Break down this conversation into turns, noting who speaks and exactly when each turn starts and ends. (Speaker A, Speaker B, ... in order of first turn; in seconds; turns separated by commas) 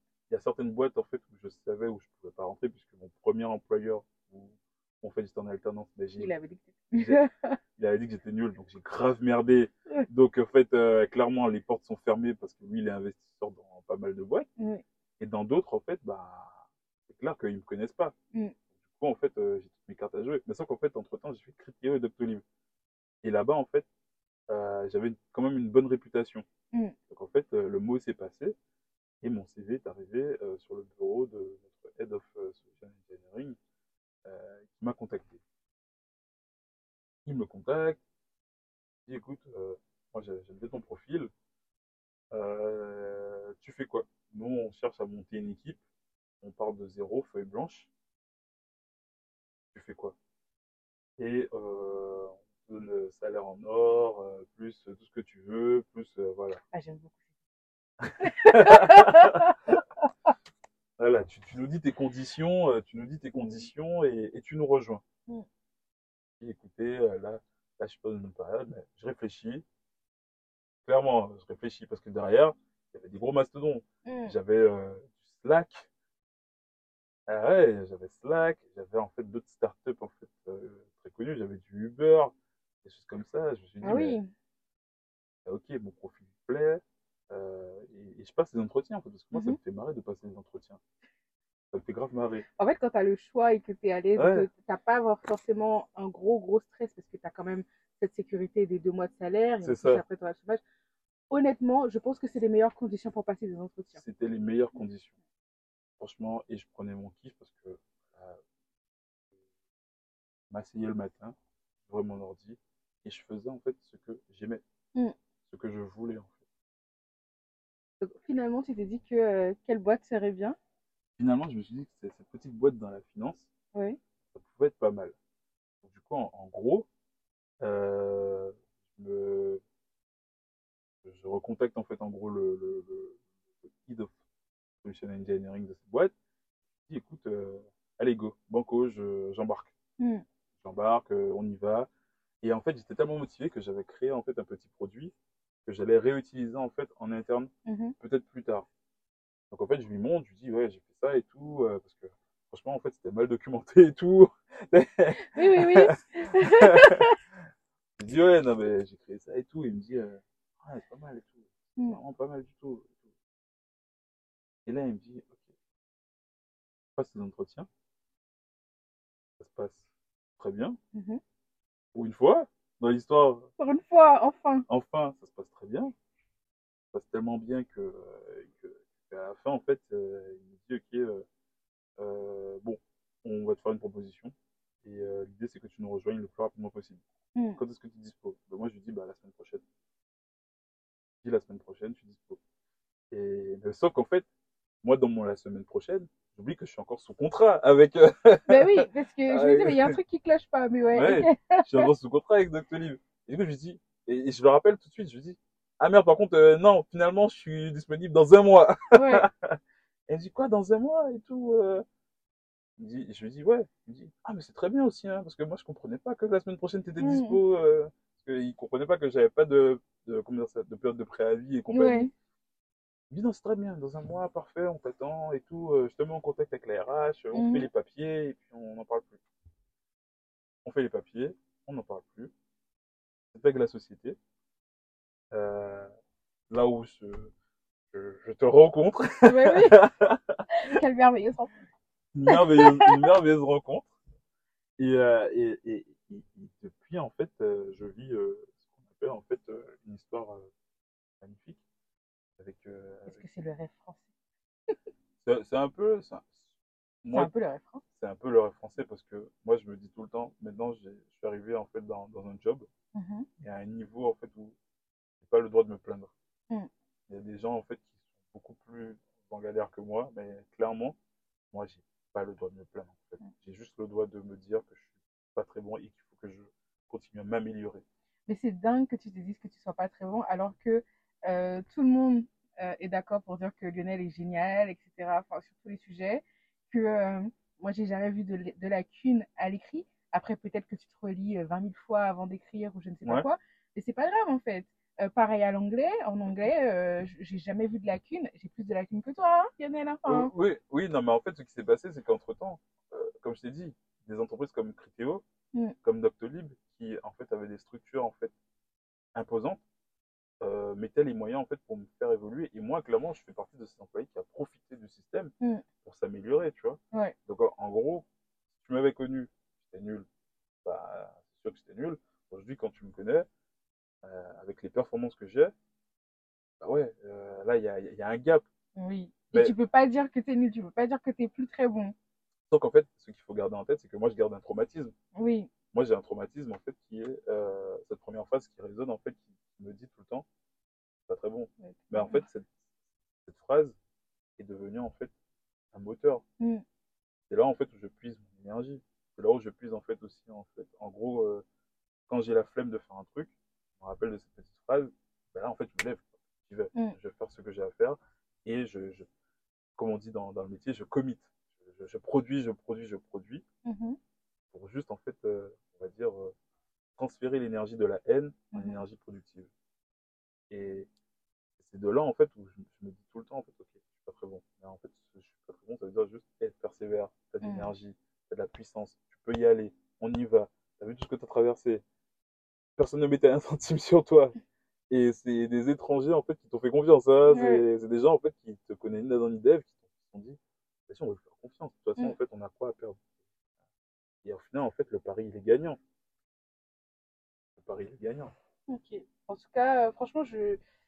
Speaker A: 0.3-6.3, Speaker B: 6.2-7.6, Speaker A: 6.9-7.2, Speaker A: 7.8-14.5, Speaker B: 14.6-14.8, Speaker A: 15.2-18.1, Speaker A: 18.8-22.4, Speaker A: 23.2-23.9, Speaker A: 24.5-26.5, Speaker A: 27.1-28.6, Speaker A: 29.2-33.6, Speaker A: 34.2-35.4, Speaker A: 37.2-38.0, Speaker A: 39.1-41.3, Speaker A: 42.3-45.8, Speaker A: 46.4-47.9, Speaker A: 49.7-50.1, Speaker A: 51.2-56.6, Speaker B: 56.7-57.1, Speaker A: 58.0-59.5, Speaker B: 58.2-59.6, Speaker A: 61.0-65.0, Speaker A: 66.4-69.6, Speaker A: 70.8-75.9, Speaker B: 74.0-74.3, Speaker A: 77.3-82.3, Speaker A: 82.8-84.2, Speaker B: 83.8-84.3, Speaker A: 85.5-90.8, Speaker A: 91.7-92.5, Speaker B: 92.6-100.6, Speaker A: 94.2-94.5, Speaker A: 99.6-100.0, Speaker B: 101.3-104.0, Speaker A: 104.0-105.2, Speaker A: 106.0-108.4, Speaker A: 110.5-114.6, Speaker A: 115.5-116.4, Speaker B: 118.0-120.6, Speaker A: 121.2-123.5, Speaker A: 124.3-125.2, Speaker A: 125.8-126.9, Speaker A: 127.6-129.6, Speaker A: 131.0-134.1, Speaker A: 134.8-136.1, Speaker A: 136.9-139.7, Speaker B: 140.0-140.2, Speaker A: 140.6-141.9, Speaker A: 142.4-145.1, Speaker A: 145.6-148.7, Speaker B: 147.7-148.0, Speaker A: 149.5-157.1, Speaker B: 155.3-157.2, Speaker A: 158.0-163.0, Speaker A: 164.6-165.5, Speaker A: 167.0-167.7, Speaker A: 169.4-169.9, Speaker A: 170.4-170.8, Speaker B: 170.9-171.2, Speaker A: 171.9-173.5, Speaker B: 173.6-174.7, Speaker A: 174.7-175.9, Speaker A: 176.9-181.2, Speaker A: 182.0-187.0, Speaker B: 187.3-187.6, Speaker A: 187.6-189.6, Speaker A: 191.2-192.4, Speaker A: 193.1-194.3, Speaker A: 194.8-200.0, Speaker B: 198.5-201.9, Speaker A: 200.9-209.6, Speaker B: 208.9-209.3, Speaker A: 210.1-211.8, Speaker A: 212.8-222.1, Speaker B: 217.0-217.4, Speaker B: 221.7-222.1, Speaker A: 223.1-229.2, Speaker B: 227.3-227.7, Speaker A: 230.6-232.3, Speaker A: 233.3-234.2, Speaker A: 235.3-235.9, Speaker A: 236.5-237.3, Speaker A: 237.9-240.8, Speaker B: 239.2-239.8, Speaker B: 240.5-241.5, Speaker A: 242.1-243.9, Speaker B: 242.3-243.0, Speaker A: 244.8-250.5, Speaker A: 251.2-251.6, Speaker A: 252.4-253.2, Speaker B: 253.1-254.1, Speaker A: 255.2-256.5, Speaker A: 257.0-257.3, Speaker B: 257.1-257.8, Speaker A: 257.9-262.7, Speaker B: 262.9-263.3, Speaker A: 263.4-264.6, Speaker A: 265.2-266.1, Speaker A: 267.1-271.0, Speaker A: 271.5-277.9, Speaker B: 278.3-300.3, Speaker A: 293.0-293.3, Speaker A: 300.1-305.2, Speaker A: 305.8-308.3, Speaker A: 309.1-309.6, Speaker A: 310.4-315.3, Speaker B: 315.4-315.6, Speaker A: 315.8-320.1, Speaker A: 320.6-323.3, Speaker A: 324.0-325.5, Speaker A: 326.6-328.5, Speaker B: 328.8-331.9, Speaker A: 332.5-334.9, Speaker B: 335.1-335.5, Speaker A: 335.7-340.3, Speaker A: 341.1-342.5, Speaker B: 341.6-342.2, Speaker A: 343.2-343.8, Speaker A: 344.4-345.1, Speaker A: 345.7-346.2, Speaker A: 347.3-351.4, Speaker A: 352.1-359.1, Speaker A: 359.8-363.4, Speaker B: 363.6-364.0, Speaker A: 364.5-366.3, Speaker A: 367.0-369.5, Speaker B: 368.5-368.8, Speaker A: 370.5-370.9, Speaker A: 371.6-381.8, Speaker B: 377.4-377.7, Speaker A: 382.8-384.4, Speaker A: 384.9-393.0, Speaker B: 387.3-387.6, Speaker A: 394.2-395.8, Speaker A: 397.6-398.3, Speaker B: 398.7-400.6